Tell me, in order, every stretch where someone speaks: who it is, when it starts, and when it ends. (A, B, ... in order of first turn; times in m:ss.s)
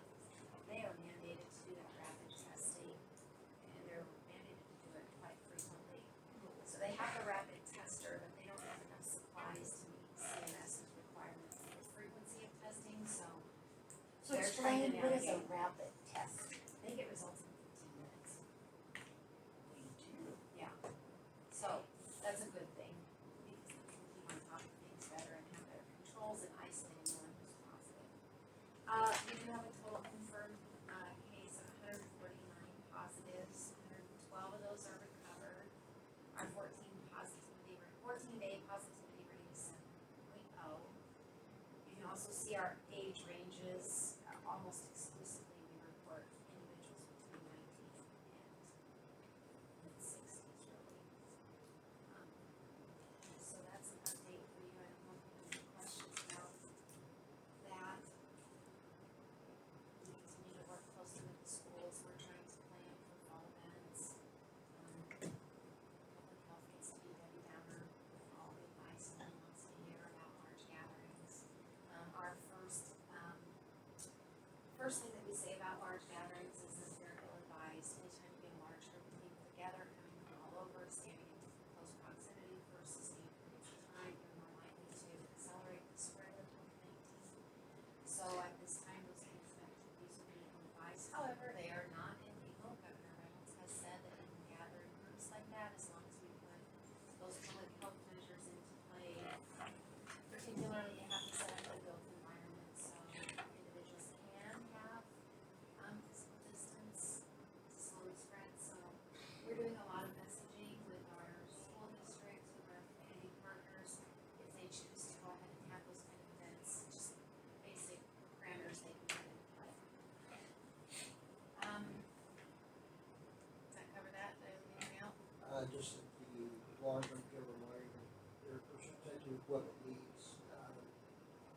0:00.6-0:03.0 A
0:03.6-0:13.4 A
0:14.2-0:16.5 B
0:14.2-0:15.5 A
0:16.8-0:18.4 A
0:19.7-0:20.4 B
0:21.5-0:28.1 A
0:28.9-0:35.7 A
0:36.3-0:41.0 A
0:41.8-0:48.7 A
0:49.8-0:51.1 A
0:52.1-0:52.5 A
0:53.2-0:56.6 A
0:57.6-0:58.1 A
1:00.0-1:04.1 A
1:04.7-1:05.2 A
1:06.1-1:13.6 A
1:14.7-1:27.3 A
1:28.0-1:39.4 A
1:40.3-1:45.1 A
1:45.8-1:59.8 A
2:01.5-2:02.1 A
2:03.7-2:05.2 A
2:05.4-2:11.0 C